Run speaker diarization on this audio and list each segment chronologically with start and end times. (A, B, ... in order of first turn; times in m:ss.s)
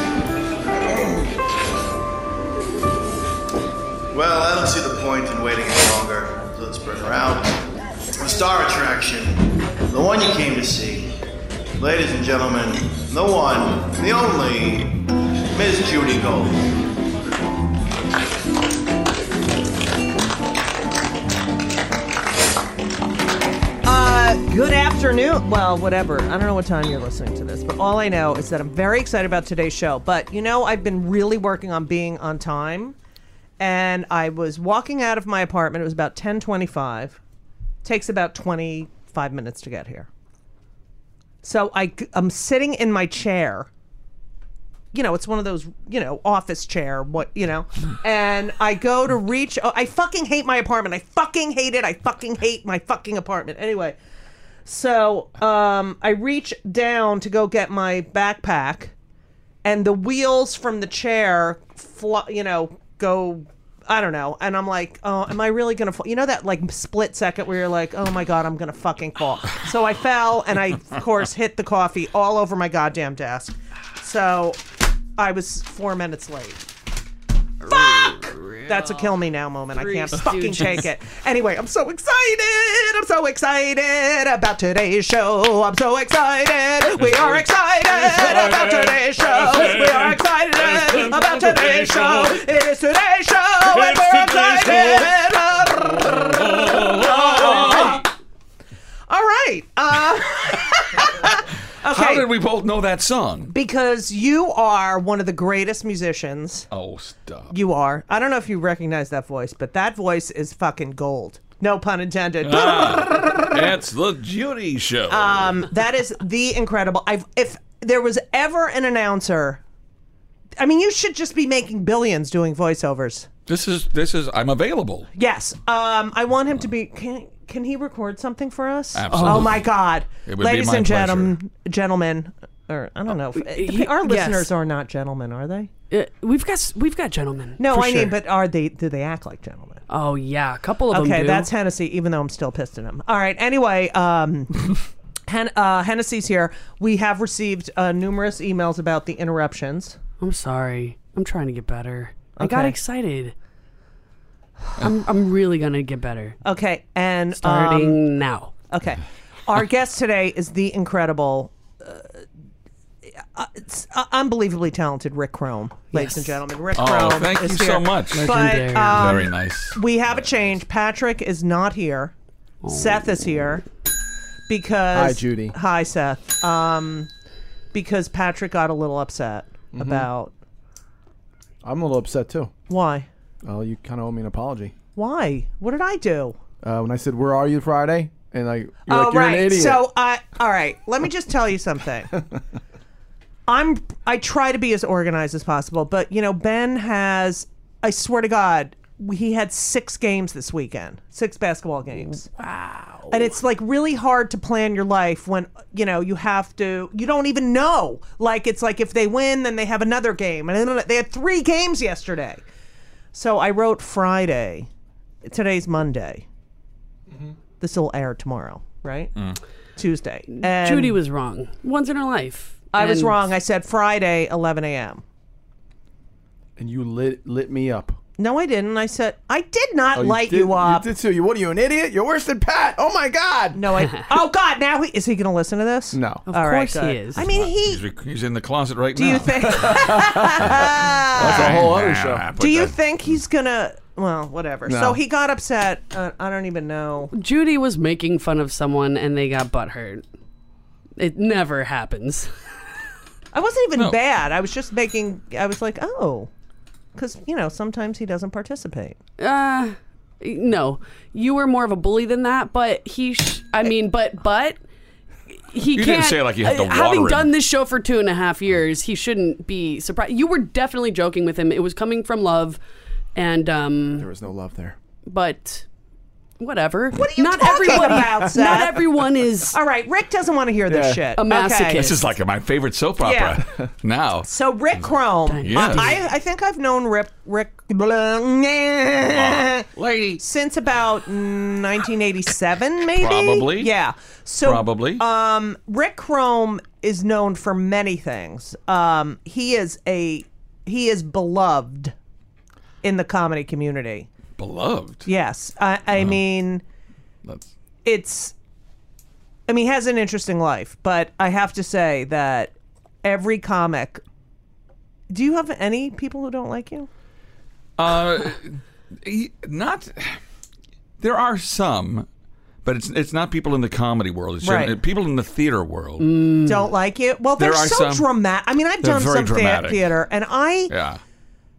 0:00.8-0:01.3 A
0:04.1-0:07.6 A
0:08.2-0:11.1 A
0:11.8-0:15.0 A
0:15.5-0:16.7 A
0:23.8-0:33.0 B
0:33.6-0:37.2 B
0:37.8-0:40.1 B
0:41.4-0:43.7 B
0:44.9-0:54.0 B
0:54.7-0:58.9 B
0:59.6-1:14.6 B
1:15.2-1:16.6 B
1:17.6-1:38.1 B
1:17.7-1:19.1 C
1:19.8-1:20.8 C
1:28.1-1:30.2 D
1:30.7-1:32.4 D
1:33.6-1:35.2 D
1:36.0-1:38.0 D
1:39.1-1:42.3 B
1:41.8-1:43.5 D
1:43.5-1:46.7 B
1:46.7-1:47.5 D
1:47.5-1:53.7 B
1:52.4-1:55.7 D
1:55.1-1:59.6 B
2:00.6-2:03.3 B
2:03.5-2:05.1 D
2:05.2-2:15.7 B
2:08.9-2:09.7 D
2:09.1-2:09.5 C
2:10.2-2:11.4 D
2:13.3-2:14.5 C
2:15.9-2:18.2 C
2:17.6-2:19.8 B
2:19.9-2:21.5 C
2:20.9-2:30.0 B
2:30.2-2:33.3 C
2:32.4-2:32.8 B
2:34.7-2:36.4 C
2:36.4-2:38.0 B
2:37.4-2:38.5 C
2:38.7-2:42.2 B
2:43.2-2:52.1 B
2:45.9-2:46.4 C
2:46.8-2:48.4 D
2:48.1-2:49.2 C
2:48.9-2:50.5 D
2:52.6-2:53.2 C
2:52.7-2:53.6 B
2:54.5-2:57.1 B
2:54.9-2:55.6 E
2:57.7-3:00.3 B
2:59.7-3:00.1 E
3:01.6-3:02.5 E
3:02.7-3:03.1 B
3:03.4-3:04.7 E
3:05.0-3:06.4 B
3:06.6-3:09.8 E
3:08.9-3:12.1 B
3:13.5-3:22.3 B
3:22.3-3:23.3 C
3:23.1-3:32.4 B
3:33.1-3:34.7 B
3:35.2-3:36.3 B
3:37.6-3:39.1 B
3:39.8-3:41.0 B
3:40.4-3:43.2 C
3:42.7-3:45.0 B
3:46.6-3:48.0 E
3:48.2-3:50.9 B
3:50.0-3:53.6 E
3:53.6-3:57.8 B
3:55.9-3:56.3 E
3:56.3-3:57.2 C
3:57.2-4:02.8 D
3:59.0-4:01.6 B
3:59.6-4:02.2 E
4:02.4-4:07.1 B
4:04.7-4:05.0 E
4:07.1-4:10.0 C
4:11.0-4:12.3 C
4:13.3-4:16.3 B
4:17.0-4:19.0 B
4:19.2-4:24.6 C
4:25.5-4:32.6 C
4:25.7-4:27.3 D
4:33.2-4:34.1 C
4:34.0-4:34.8 E
4:35.1-4:35.7 C
4:36.4-4:39.6 C
4:37.0-4:38.8 B
4:37.7-4:38.8 E
4:39.5-4:41.8 B
4:40.7-4:41.0 E
4:41.2-4:42.1 C
4:41.7-4:44.3 D
4:43.0-4:43.4 B
4:44.3-4:49.7 B
4:45.3-4:46.0 C
4:45.4-4:45.9 D
4:49.1-4:50.2 D
4:50.2-5:02.0 B
4:53.0-4:53.7 D
4:54.4-4:55.0 D
5:02.8-5:04.1 B
5:04.4-5:05.1 D
5:05.1-5:06.6 B
5:05.9-5:06.2 D
5:07.8-5:08.4 B
5:09.5-5:12.5 B
5:13.0-5:14.0 B
5:15.1-5:16.9 B
5:17.8-5:20.2 D
5:21.0-5:22.1 D
5:22.6-5:26.1 D
5:24.4-5:24.8 B
5:26.0-5:26.7 C
5:26.4-5:30.7 B
5:27.4-5:28.1 D
5:28.8-5:29.9 D
5:30.7-5:31.0 D